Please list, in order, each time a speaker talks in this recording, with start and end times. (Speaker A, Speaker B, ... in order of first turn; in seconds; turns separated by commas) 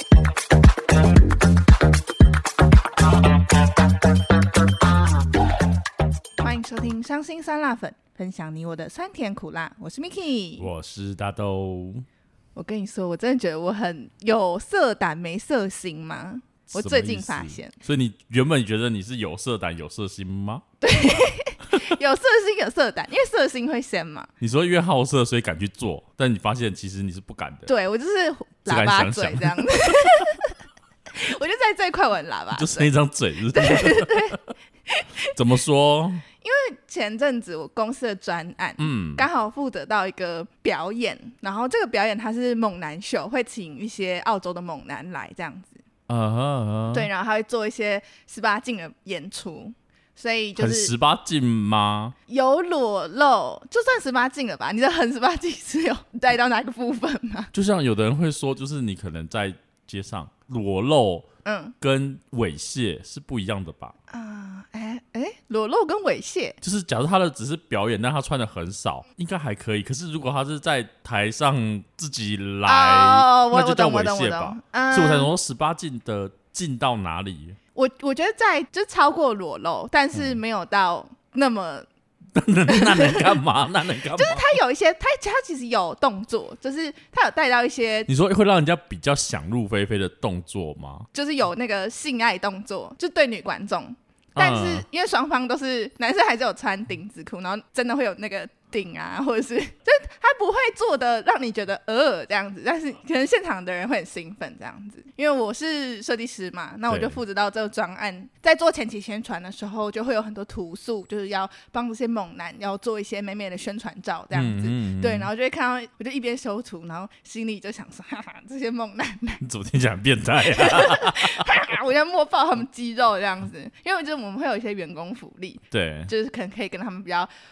Speaker A: 6.4-10.7, Speaker B: 10.6-12.1, Speaker A: 12.6-17.8, Speaker B: 16.7-20.6, Speaker A: 20.8-24.3, Speaker B: 24.4-27.7, Speaker A: 27.7-30.6, Speaker B: 28.7-30.1, Speaker A: 31.1-32.9, Speaker B: 32.5-34.4, Speaker A: 33.5-35.3, Speaker B: 35.3-36.3, Speaker A: 36.4-45.8, Speaker B: 38.8-39.3, Speaker B: 46.1-47.1, Speaker A: 46.9-50.9, Speaker B: 50.6-52.1, Speaker A: 52.3-57.5, Speaker B: 57.5-61.3, Speaker A: 61.5-61.8, Speaker B: 61.8-64.0, Speaker A: 64.1-66.6, Speaker B: 66.6-77.6, Speaker A: 72.7-75.3, Speaker A: 77.8-81.9, Speaker B: 80.1-80.4, Speaker B: 82.3-84.5, Speaker A: 82.7-83.4, Speaker A: 84.2-88.1, Speaker B: 88.1-91.1, Speaker A: 91.1-119.4, Speaker B: 94.4-94.8, Speaker B: 106.9-107.2, Speaker B: 114.3-115.3, Speaker B: 119.4-121.4, Speaker A: 120.4-127.3, Speaker B: 125.7-126.1